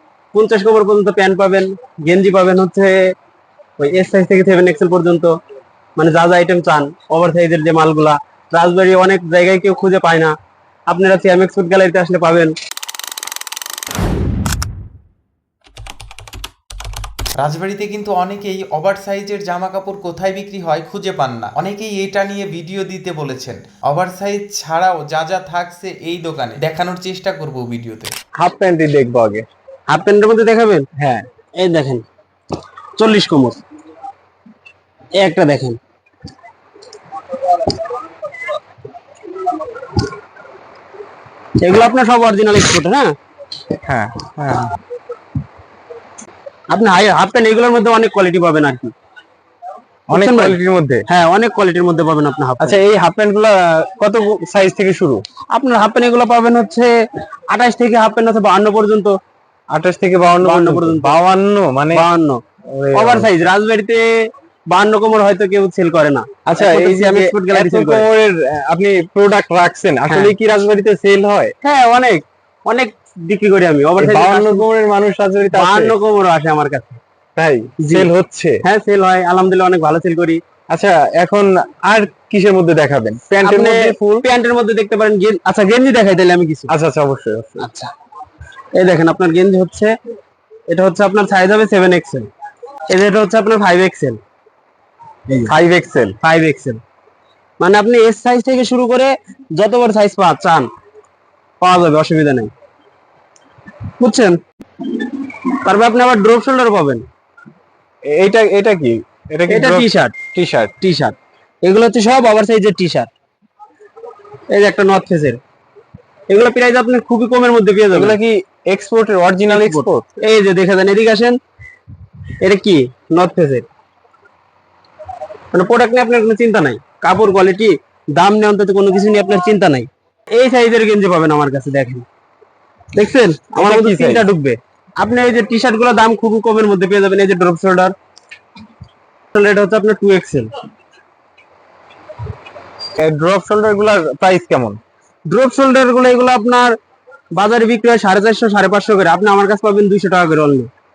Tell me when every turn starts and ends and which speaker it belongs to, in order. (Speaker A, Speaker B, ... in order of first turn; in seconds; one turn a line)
Speaker A: 0.3-3.0
Speaker A: 3.8-5.4
Speaker A: 6.0-10.3
Speaker A: 10.9-12.5
Speaker B: 17.4-28.1
Speaker C: 28.4-29.5
Speaker A: 29.9-30.9
Speaker C: 31.0-31.2
Speaker A: 31.6-32.0
Speaker A: 33.0-33.6
Speaker A: 35.2-35.8
Speaker A: 41.6-43.1
Speaker C: 43.9-44.7
Speaker A: 46.7-48.9
Speaker C: 50.1-51.0
Speaker A: 50.1-50.6
Speaker A: 51.1-52.8
Speaker C: 52.6-55.2
Speaker A: 55.5-56.9
Speaker A: 57.5-59.1
Speaker C: 59.7-62.0
Speaker A: 60.4-61.2
Speaker A: 61.9-62.4
Speaker C: 62.7-63.3
Speaker A: 62.9-64.1
Speaker A: 64.7-68.0
Speaker C: 66.5-71.5
Speaker A: 70.1-70.3
Speaker A: 71.6-74.7
Speaker C: 74.0-75.9
Speaker A: 75.5-77.0
Speaker C: 77.3-78.6
Speaker A: 77.8-78.1
Speaker A: 78.6-80.4
Speaker C: 80.7-84.2
Speaker A: 83.3-86.7
Speaker C: 86.7-87.5
Speaker A: 87.6-87.9
Speaker A: 88.8-89.9
Speaker A: 90.7-92.3
Speaker A: 92.9-94.2
Speaker C: 95.5-96.1
Speaker A: 96.2-96.8
Speaker A: 97.6-100.7
Speaker A: 101.6-102.5
Speaker A: 104.0-104.4
Speaker A: 105.6-107.0
Speaker C: 108.1-110.7
Speaker A: 109.5-110.1
Speaker A: 110.8-113.1
Speaker A: 114.5-115.4
Speaker A: 116.3-118.2
Speaker C: 117.9-120.0
Speaker A: 119.5-121.4
Speaker A: 122.4-123.6
Speaker A: 125.5-132.0
Speaker A: 132.9-137.9
Speaker C: 133.6-134.2
Speaker A: 139.3-140.5
Speaker C: 143.0-144.8
Speaker A: 145.3-146.8
Speaker A: 147.4-150.7